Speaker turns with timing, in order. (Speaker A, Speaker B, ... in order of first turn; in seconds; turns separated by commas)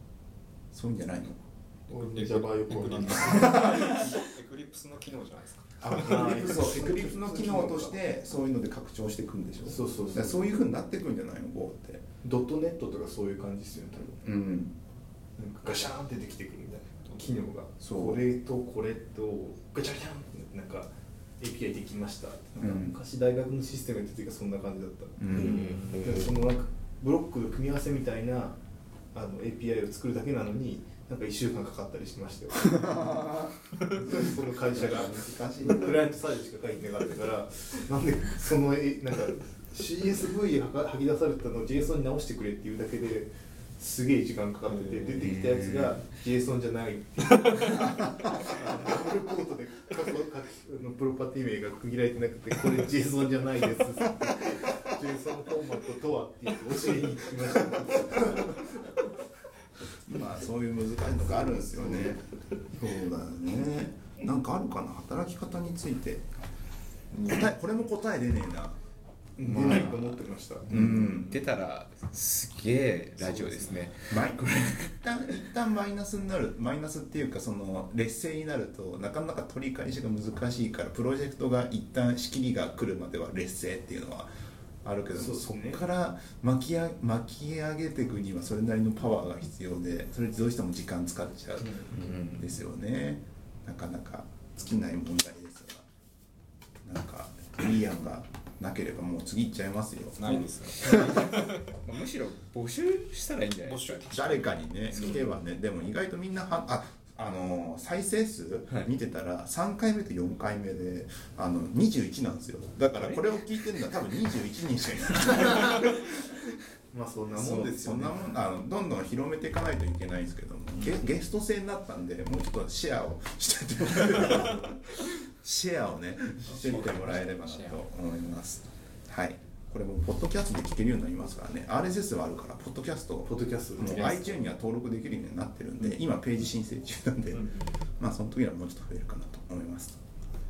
Speaker A: 0.7-1.4, Speaker B: 1.9-3.7, Speaker C: 1.9-6.1, Speaker A: 3.1-4.2, Speaker A: 5.8-12.0, Speaker B: 5.9-8.0, Speaker B: 9.6-10.5, Speaker B: 12.2-14.2, Speaker A: 14.2-14.7, Speaker B: 15.4-28.6, Speaker A: 17.8-18.2, Speaker A: 22.6-22.9, Speaker A: 25.2-25.8, Speaker C: 25.3-26.3, Speaker B: 29.1-33.2, Speaker A: 32.5-36.0, Speaker B: 33.9-58.9, Speaker C: 44.7-45.3, Speaker A: 45.2-46.0, Speaker A: 60.0-66.3, Speaker B: 61.4-62.1, Speaker A: 67.2-68.8, Speaker B: 69.4-70.8, Speaker A: 69.4-71.3, Speaker D: 70.7-74.1, Speaker C: 73.3-73.9, Speaker A: 74.1-84.3, Speaker A: 84.8-95.8, Speaker B: 85.1-85.8, Speaker B: 91.6-92.0, Speaker A: 96.8-101.2, Speaker C: 100.2-101.8, Speaker D: 101.8-104.1, Speaker C: 103.5-105.3, Speaker A: 104.1-116.1, Speaker D: 104.9-105.2, Speaker B: 116.9-118.3, Speaker A: 117.3-140.0, Speaker C: 126.4-127.8, Speaker B: 133.2-134.1, Speaker C: 133.8-134.4, Speaker C: 137.3-137.8